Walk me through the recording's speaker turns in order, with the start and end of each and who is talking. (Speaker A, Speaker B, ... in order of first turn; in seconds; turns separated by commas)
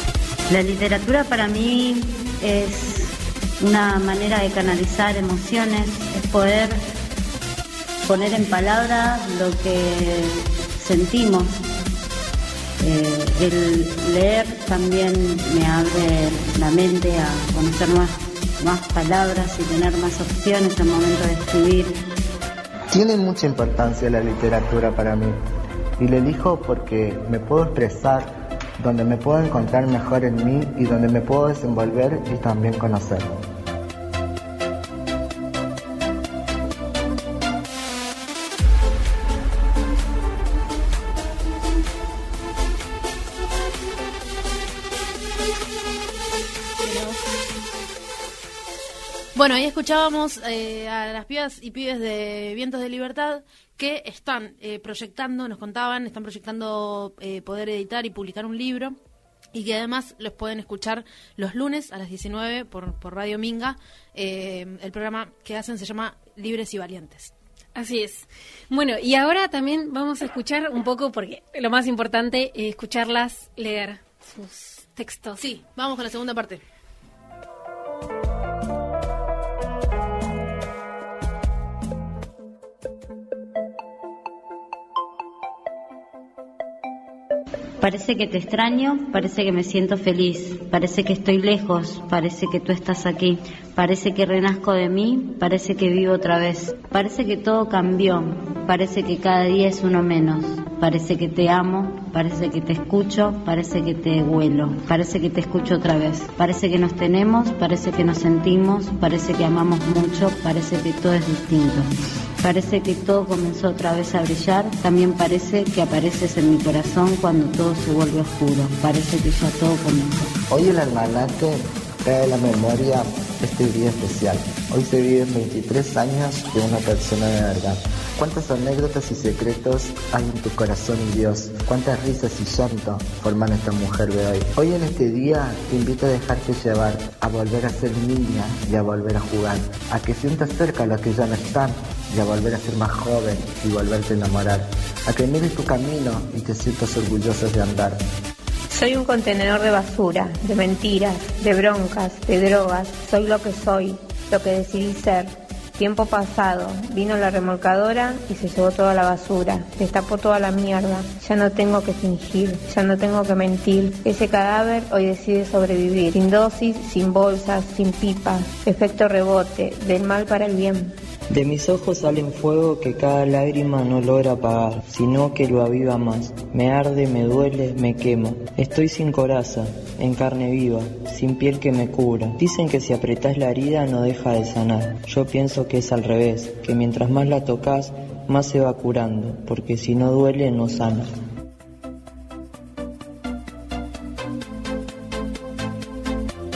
Speaker A: 0.5-6.8, Speaker A: 8.0-11.6, Speaker A: 12.8-22.0, Speaker B: 22.9-25.4, Speaker B: 26.0-33.3, Speaker C: 46.8-47.2, Speaker C: 49.3-59.0, Speaker C: 59.5-67.3, Speaker D: 67.7-75.4, Speaker C: 75.4-76.6, Speaker A: 87.8-111.9, Speaker A: 112.4-120.3, Speaker B: 120.5-148.0, Speaker E: 148.7-170.9, Speaker F: 171.3-191.1